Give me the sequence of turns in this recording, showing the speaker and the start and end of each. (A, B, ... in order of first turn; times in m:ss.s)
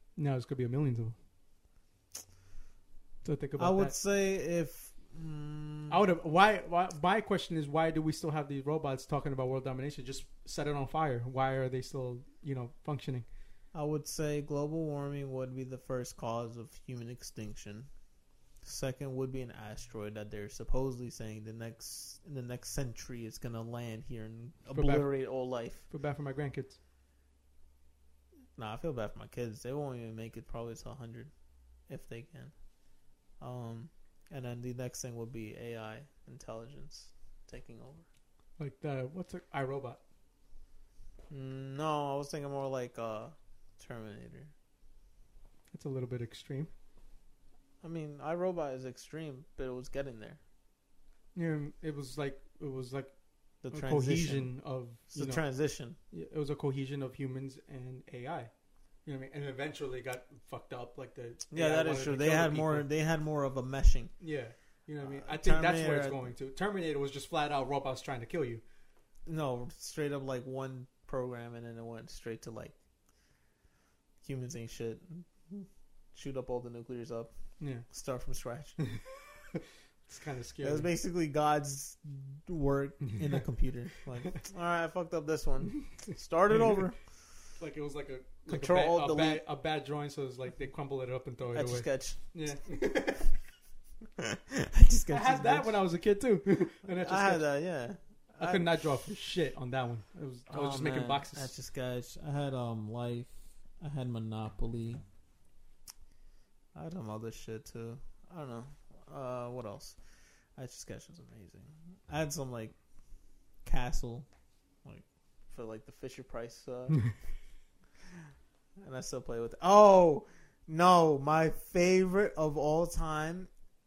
0:00.2-0:01.2 A
0:03.2-0:03.9 A
0:03.6-0:06.0 B
0:05.9-0:13.3 A
0:13.7-0:17.9 B
0:18.6-0:25.8 B
0:24.7-0:26.8 A
0:28.6-0:31.3 B
0:31.9-0:32.5 B
0:33.4-0:38.0 B
0:38.6-0:40.0 A
0:41.3-0:44.5 B
0:45.7-0:46.7 A
0:47.8-0:50.4 B
0:51.4-0:53.1 A
0:53.6-0:54.5 B
0:53.7-0:55.4 A
0:55.1-0:56.0 B
0:56.1-0:58.5 A
0:59.1-1:02.9 A
1:01.5-1:04.1 B
1:04.2-1:08.6 A
1:05.0-1:06.3 B
1:09.3-1:12.8 B
1:14.2-1:17.3 B
1:17.6-1:17.9 A
1:17.9-1:18.8 B
1:18.8-1:20.9 A
1:20.6-1:27.0 B
1:27.6-1:33.3 A
1:28.5-1:29.4 B
1:31.5-1:32.2 B
1:34.2-1:35.8 B
1:35.1-1:37.5 A
1:36.9-1:38.8 B
1:38.4-1:41.5 A
1:40.5-1:45.0 B
1:46.8-1:50.0 B
1:50.6-1:52.8 B
1:53.6-1:54.3 B
1:54.8-1:57.0 B
1:58.8-2:03.5 B